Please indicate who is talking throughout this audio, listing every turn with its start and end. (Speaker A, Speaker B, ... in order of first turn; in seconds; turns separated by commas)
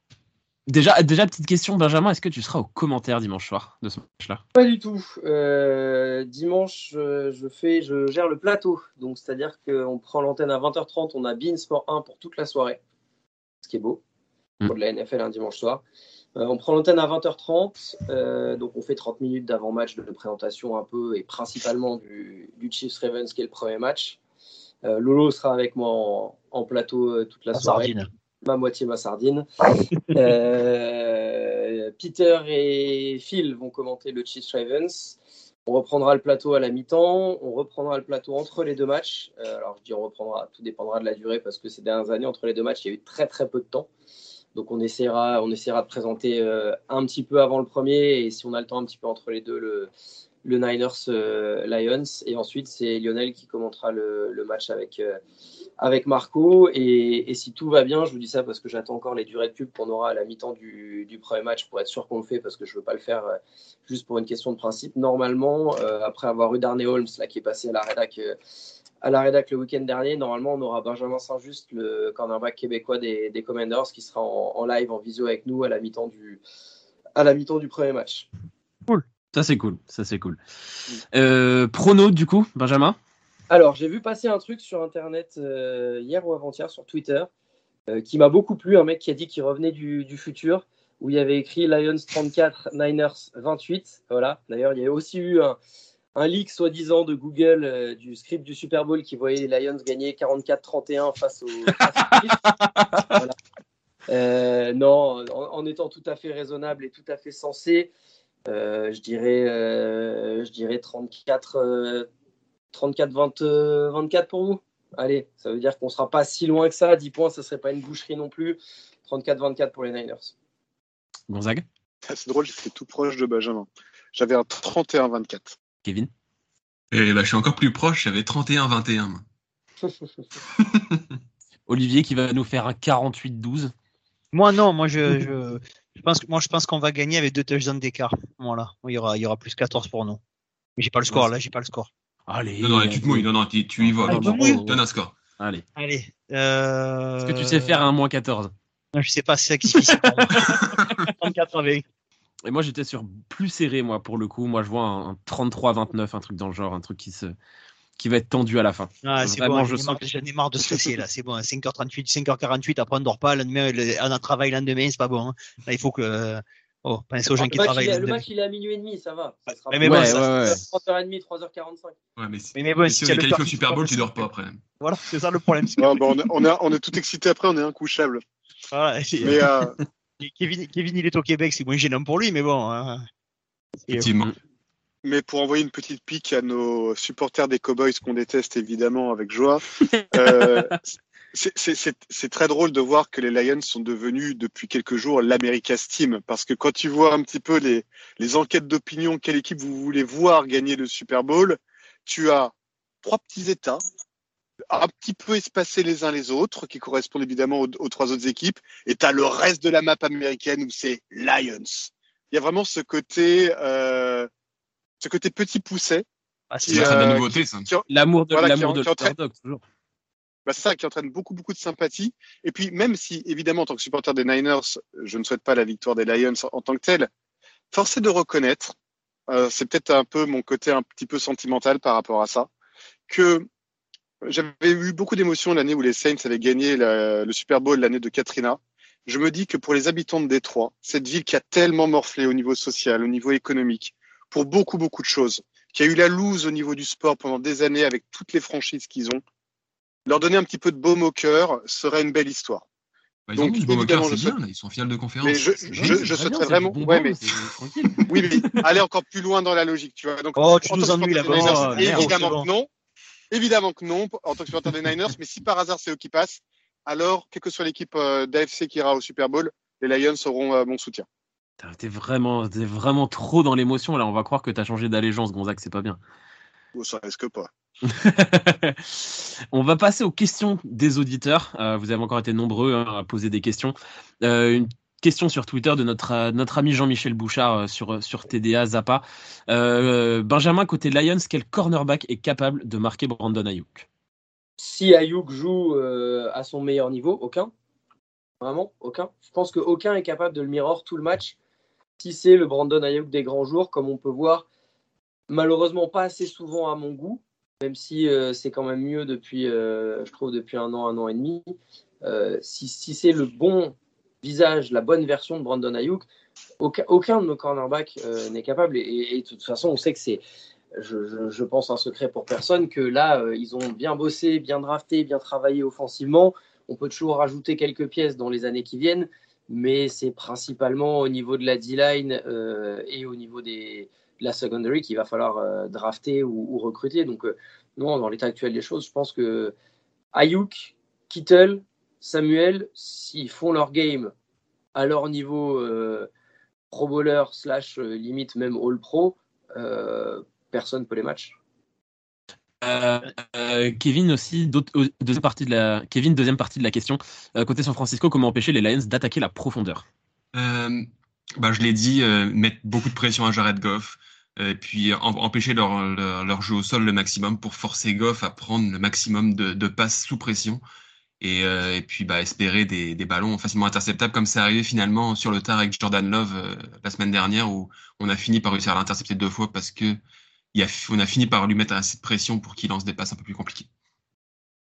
Speaker A: 0.7-4.4, Speaker B: 4.5-12.8, Speaker B: 13.6-14.0, Speaker B: 14.7-15.8, Speaker B: 16.4-24.2, Speaker B: 24.8-27.9, Speaker C: 27.5-28.1, Speaker B: 28.4-29.5, Speaker B: 30.1-43.9, Speaker B: 44.5-49.9, Speaker B: 50.4-55.2, Speaker B: 55.8-68.4, Speaker B: 69.0-76.4, Speaker B: 77.2-78.3, Speaker A: 79.3-80.4, Speaker A: 81.1-83.0, Speaker B: 83.5-87.3, Speaker B: 87.9-95.6, Speaker B: 96.2-102.5, Speaker A: 102.5-103.1, Speaker B: 103.0-103.4, Speaker B: 104.1-107.9, Speaker B: 108.5-112.1, Speaker B: 112.7-120.3, Speaker A: 121.3-121.7, Speaker D: 122.1-125.6, Speaker A: 125.8-126.1, Speaker E: 126.9-129.2, Speaker E: 130.6-131.0, Speaker A: 131.7-133.7, Speaker C: 134.3-140.2, Speaker C: 140.8-141.9, Speaker A: 142.3-143.3, Speaker E: 142.6-145.2, Speaker A: 143.8-144.8, Speaker C: 144.1-144.6, Speaker A: 145.4-145.6, Speaker C: 145.8-147.8, Speaker A: 147.2-148.5, Speaker C: 148.9-151.8, Speaker A: 149.7-151.1, Speaker A: 152.5-157.3, Speaker A: 158.0-160.0, Speaker C: 159.0-168.2, Speaker A: 160.7-161.0, Speaker B: 167.4-172.0, Speaker C: 169.7-170.6, Speaker A: 169.8-170.6, Speaker E: 172.2-174.6, Speaker C: 172.6-174.3, Speaker C: 174.8-176.2, Speaker D: 175.8-178.2, Speaker C: 178.7-179.5, Speaker D: 179.2-179.8, Speaker C: 180.2-183.0, Speaker E: 183.9-184.3, Speaker D: 185.0-203.8, Speaker A: 190.2-190.7, Speaker D: 204.7-214.3, Speaker D: 215.0-216.1, Speaker C: 216.5-217.3, Speaker D: 216.7-219.1, Speaker E: 216.7-217.7, Speaker A: 217.9-219.6, Speaker D: 220.5-227.1, Speaker D: 227.7-228.7, Speaker D: 229.3-232.5, Speaker D: 233.1-233.5, Speaker D: 234.2-249.2, Speaker D: 250.1-252.7, Speaker E: 253.3-256.1, Speaker D: 253.4-254.3, Speaker D: 255.2-257.2, Speaker A: 255.7-258.6, Speaker D: 258.1-262.7, Speaker C: 260.4-262.5, Speaker A: 261.3-262.1, Speaker D: 263.3-271.1, Speaker A: 271.6-276.0, Speaker D: 276.8-277.5, Speaker A: 277.9-293.9, Speaker B: 294.6-297.5, Speaker B: 298.4-301.4, Speaker B: 302.0-304.5, Speaker B: 305.3-316.1, Speaker B: 316.6-320.2, Speaker B: 320.8-339.5, Speaker B: 340.1-344.1, Speaker B: 344.8-346.1, Speaker B: 346.7-351.4, Speaker A: 352.6-359.9, Speaker E: 360.4-360.9, Speaker E: 361.4-370.6, Speaker E: 371.2-380.0, Speaker E: 380.5-383.7